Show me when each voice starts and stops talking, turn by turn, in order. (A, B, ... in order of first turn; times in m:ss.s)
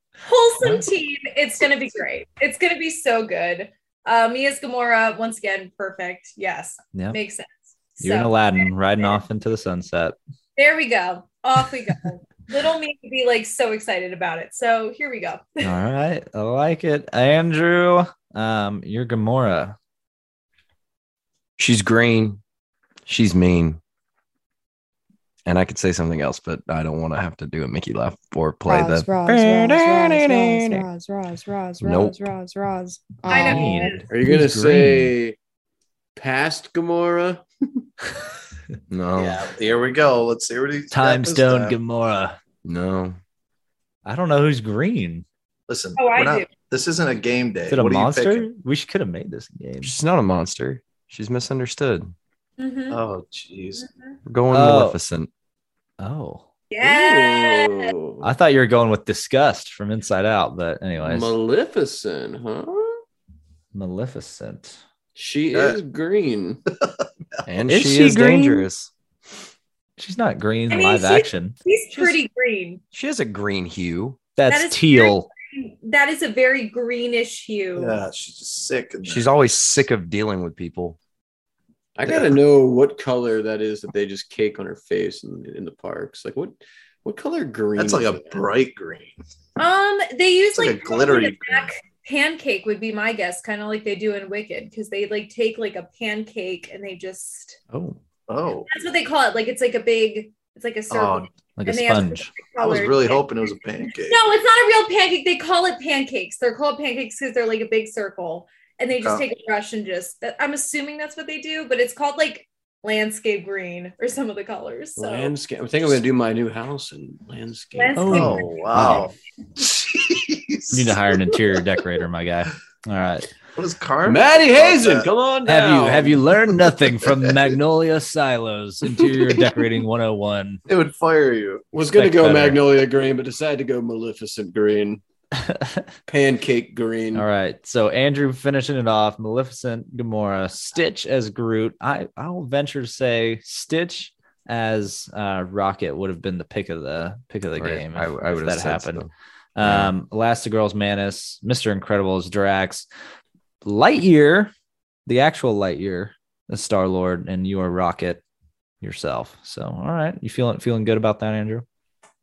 0:00.3-0:09.2 A
0:00.6-0:00.9 B
0:08.0-0:10.2 B
0:10.6-0:15.7 A
0:15.6-0:19.8 B
0:21.6-0:22.4 C
0:23.1-0:23.8 C
0:25.4-0:29.1 C
0:28.7-0:34.0 D
0:29.3-0:30.8 B
0:29.9-0:30.5 C
0:31.8-0:32.3 C
0:33.3-0:35.1 B
0:33.3-0:34.0 A
0:34.1-0:35.4 E
0:36.2-0:37.8 E
0:38.9-0:39.4 C
0:39.2-0:41.8 F
0:40.9-0:42.4 B
0:42.6-0:43.2 C
0:44.0-0:45.3 B
0:45.7-0:48.4 F
0:46.0-0:46.5 A
0:47.7-0:50.0 B
0:49.8-0:52.1 C
0:52.6-0:53.0 A
0:52.9-0:53.8 F
0:53.8-0:54.1 A
0:54.3-0:55.3 C
0:54.5-0:55.0 B
0:56.0-0:56.4 B
0:56.7-0:57.9 A
0:56.8-0:58.3 E
0:58.2-1:01.3 B
1:01.0-1:03.0 E
1:03.7-1:04.8 B
1:05.2-1:06.6 E
1:06.9-1:07.4 F
1:07.5-1:08.9 C
1:07.7-1:08.7 B
1:10.0-1:11.6 B
1:10.7-1:12.8 A
1:12.9-1:14.2 C
1:14.4-1:15.3 B
1:14.5-1:18.0 A
1:17.8-1:19.3 F
1:19.0-1:21.0 C
1:22.0-1:28.5 E
1:27.8-1:29.1 F
1:29.6-1:37.6 A
1:30.5-1:31.7 F
1:37.7-1:38.0 B
1:38.3-1:38.7 F
1:38.7-1:43.2 A
1:40.9-1:41.3 F
1:41.6-1:42.3 B
1:42.6-1:44.2 F
1:44.1-1:55.3 A
1:49.0-1:49.2 F
1:55.0-1:58.2 E
1:57.7-1:58.6 A
1:58.0-1:59.1 B
1:58.0-2:01.0 F
2:00.7-2:03.3 B
2:03.6-2:05.1 F
2:04.0-2:06.2 E
2:05.4-2:10.6 B
2:09.0-2:09.3 E
2:10.7-2:11.7 F
2:11.7-2:15.0 E
2:11.9-2:12.6 B
2:15.4-2:15.9 B
2:16.1-2:17.3 E
2:17.1-2:32.9 B
2:27.6-2:29.1 C
2:29.6-2:29.9 C
2:33.6-2:34.5 B
2:35.1-2:38.2 B
2:38.8-2:41.6 B